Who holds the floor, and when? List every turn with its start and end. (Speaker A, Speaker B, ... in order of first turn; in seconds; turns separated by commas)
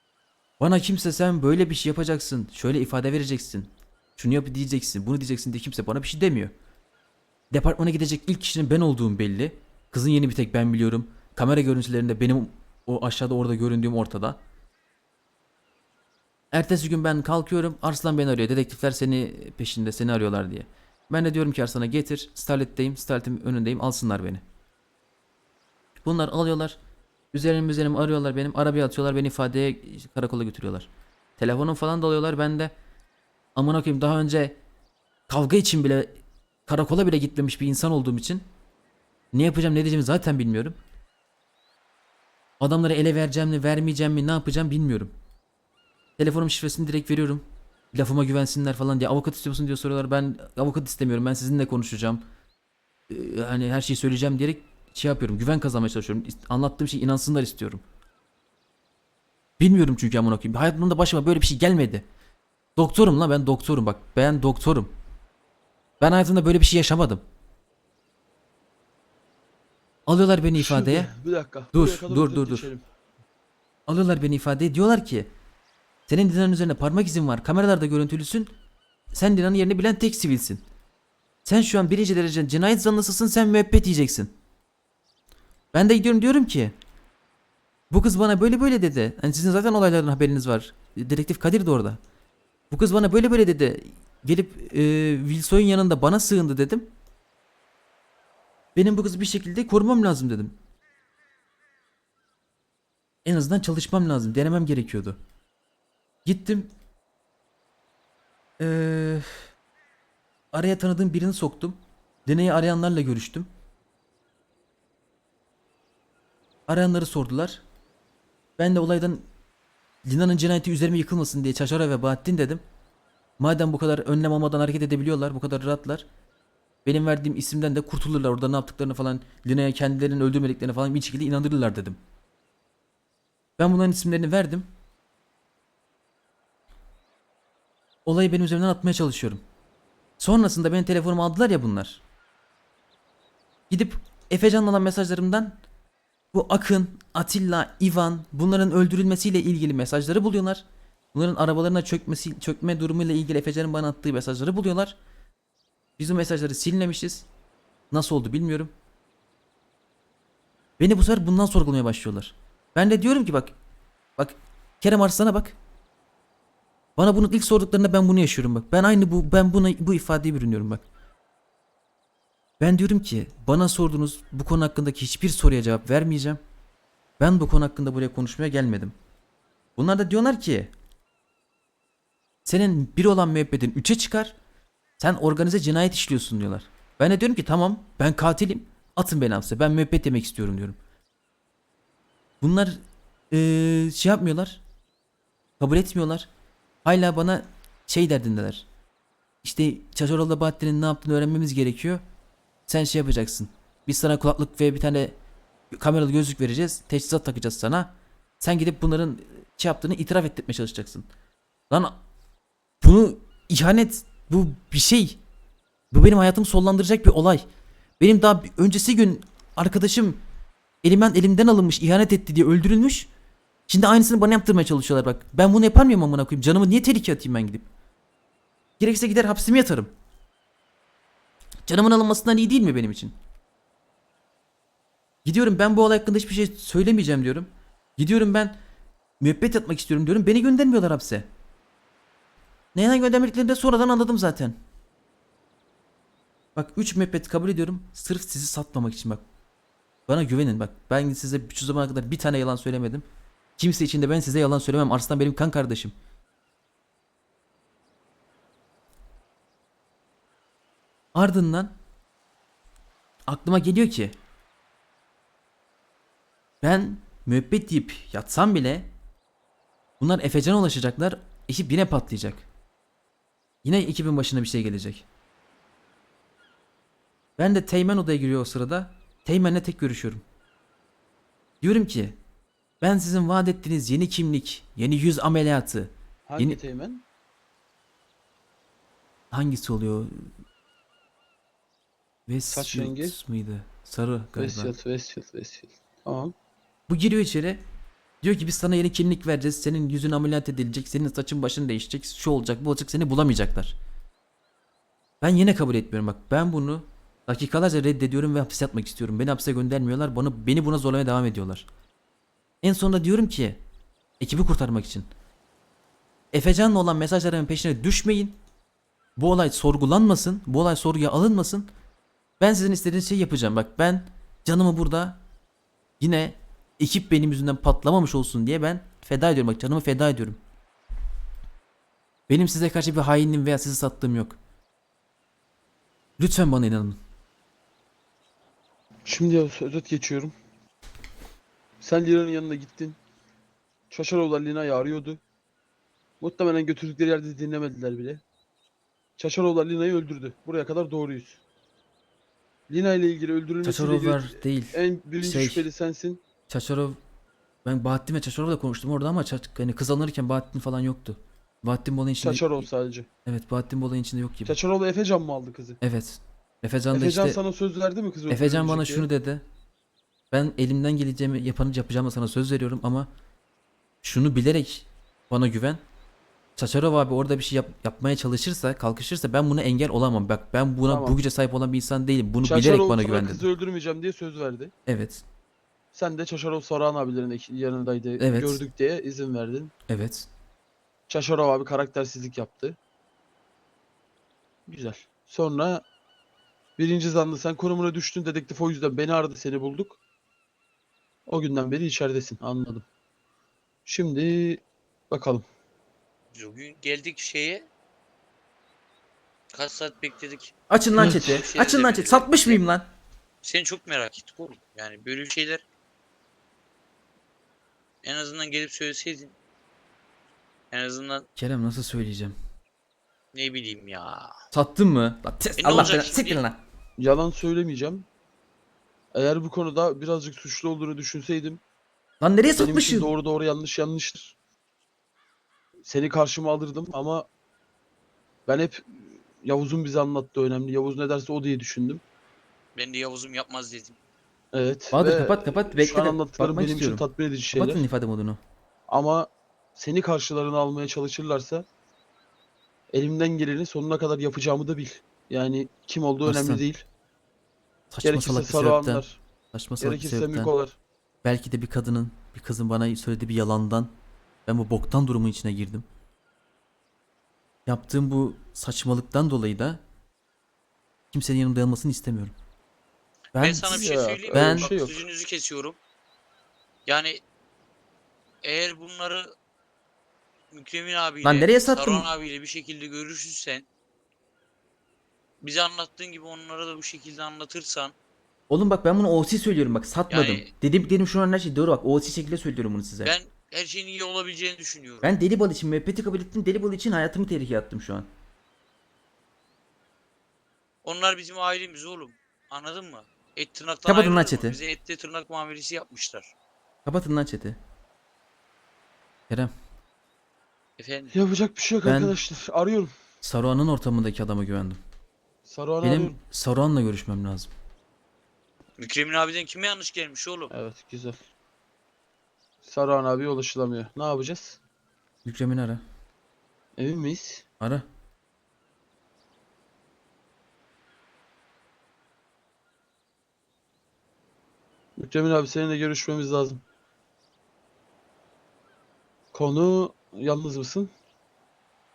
Speaker A: 0.6-6.5, Speaker A: 7.5-14.4, Speaker A: 16.5-24.4, Speaker A: 26.1-26.8, Speaker A: 27.3-32.7, Speaker A: 33.6-34.6, Speaker A: 35.3-38.5, Speaker A: 39.3-40.8, Speaker A: 42.6-45.1, Speaker A: 46.2-52.2, Speaker A: 53.1-57.8, Speaker A: 59.6-62.0, Speaker A: 62.8-64.9, Speaker A: 66.0-67.2, Speaker A: 70.1-71.1, Speaker B: 70.5-72.8, Speaker A: 71.7-72.7, Speaker A: 73.9-75.3, Speaker A: 76.1-78.5, Speaker A: 79.1-80.6, Speaker A: 81.5-84.3, Speaker A: 85.7-86.7, Speaker A: 87.9-92.0, Speaker A: 92.7-96.9, Speaker A: 98.8-100.5, Speaker A: 103.2-105.2, Speaker A: 106.2-106.7, Speaker A: 108.6-109.5, Speaker A: 110.5-113.5, Speaker A: 116.7-117.6, Speaker A: 118.6-119.3, Speaker A: 120.0-122.6, Speaker A: 123.4-126.0, Speaker A: 126.8-132.0, Speaker A: 133.6-134.7, Speaker A: 138.1-139.4, Speaker A: 140.2-142.0, Speaker A: 143.7-145.6, Speaker A: 146.3-155.0, Speaker A: 156.0-157.3, Speaker A: 157.9-158.7, Speaker A: 160.8-163.5, Speaker A: 164.2-165.6, Speaker A: 167.0-170.8, Speaker A: 172.6-176.4, Speaker A: 177.2-178.9, Speaker A: 179.8-180.7, Speaker A: 182.4-184.3, Speaker A: 185.0-190.8, Speaker A: 192.4-194.6, Speaker A: 195.6-196.3, Speaker A: 196.8-198.7, Speaker A: 199.4-202.0, Speaker A: 202.7-205.2, Speaker A: 205.7-211.1, Speaker A: 211.7-212.0, Speaker A: 212.8-215.2, Speaker A: 215.9-217.4, Speaker A: 218.0-220.2, Speaker A: 220.8-223.1, Speaker A: 223.7-227.7, Speaker A: 228.8-229.9, Speaker A: 231.7-233.2, Speaker A: 235.2-238.6, Speaker A: 239.2-241.3, Speaker A: 242.8-244.6, Speaker A: 246.6-249.2, Speaker A: 250.1-253.1, Speaker A: 253.6-255.9, Speaker A: 261.1-261.8, Speaker A: 263.3-264.1, Speaker A: 266.6-268.9, Speaker A: 270.0-272.5, Speaker A: 273.6-275.1, Speaker A: 277.4-280.2, Speaker A: 281.6-282.2, Speaker A: 282.8-286.6, Speaker B: 286.3-287.0, Speaker A: 289.3-290.3, Speaker A: 292.3-294.7, Speaker B: 292.5-293.2, Speaker B: 294.4-296.3, Speaker A: 296.9-297.6, Speaker A: 298.2-303.8, Speaker A: 305.2-311.7, Speaker A: 312.6-313.6, Speaker A: 314.2-315.1, Speaker A: 316.3-318.4, Speaker A: 319.2-321.7, Speaker A: 322.4-325.2, Speaker A: 326.0-330.4, Speaker A: 332.3-334.4, Speaker A: 336.2-337.0, Speaker B: 339.1-340.3, Speaker B: 341.8-343.0, Speaker B: 343.9-345.2, Speaker B: 346.2-348.2, Speaker B: 349.2-351.4, Speaker B: 352.7-356.2, Speaker A: 353.6-355.7, Speaker A: 356.5-357.0, Speaker A: 357.6-362.7, Speaker B: 362.2-363.1, Speaker A: 363.3-364.6, Speaker B: 364.4-365.8, Speaker A: 365.8-367.4, Speaker B: 366.9-369.1, Speaker A: 368.3-369.4, Speaker A: 370.3-373.1, Speaker A: 374.0-375.8, Speaker A: 376.6-383.5, Speaker B: 380.9-381.2, Speaker B: 382.4-384.7, Speaker A: 384.9-385.2, Speaker B: 385.9-389.7, Speaker A: 388.2-388.6, Speaker A: 389.9-390.3, Speaker B: 391.1-392.8, Speaker B: 394.7-395.8, Speaker B: 396.8-400.0, Speaker B: 401.3-402.9, Speaker B: 403.9-405.4, Speaker C: 406.3-407.7, Speaker C: 409.5-412.6, Speaker A: 410.7-412.9, Speaker B: 411.0-411.2, Speaker C: 413.4-415.6, Speaker C: 418.0-419.3, Speaker C: 420.7-421.3, Speaker A: 421.4-422.4, Speaker C: 423.3-424.3, Speaker A: 424.5-426.6, Speaker C: 425.6-426.4, Speaker B: 427.0-428.1, Speaker B: 429.1-431.6, Speaker A: 432.2-433.1, Speaker B: 432.5-434.4, Speaker B: 435.9-437.3, Speaker B: 438.5-442.0, Speaker C: 442.8-443.9, Speaker B: 444.5-447.9, Speaker A: 444.9-448.4, Speaker B: 448.9-451.6, Speaker B: 452.9-456.8, Speaker A: 456.2-456.6, Speaker A: 457.9-460.5, Speaker B: 458.0-459.2, Speaker B: 459.8-460.8, Speaker A: 461.2-463.9, Speaker A: 464.5-465.9, Speaker A: 467.7-469.8, Speaker A: 471.1-472.3, Speaker A: 473.3-473.8, Speaker C: 473.4-475.8, Speaker B: 473.6-475.0, Speaker A: 474.3-474.7, Speaker C: 476.9-477.2, Speaker C: 478.4-479.3, Speaker C: 480.5-483.7, Speaker A: 481.2-482.1, Speaker C: 485.4-487.9, Speaker A: 488.5-493.1, Speaker C: 490.1-490.5, Speaker C: 493.0-495.1, Speaker A: 495.0-498.1, Speaker C: 500.8-506.3, Speaker A: 503.9-504.6, Speaker A: 506.9-507.6, Speaker C: 510.8-511.2, Speaker B: 511.1-512.9, Speaker A: 511.8-512.1, Speaker A: 513.2-514.8, Speaker B: 515.5-516.2, Speaker A: 515.8-517.5, Speaker C: 518.8-520.5, Speaker B: 520.5-521.2, Speaker B: 522.6-524.6, Speaker A: 525.2-525.8, Speaker B: 526.8-527.4, Speaker A: 527.6-527.9, Speaker B: 535.0-536.6, Speaker B: 539.3-540.9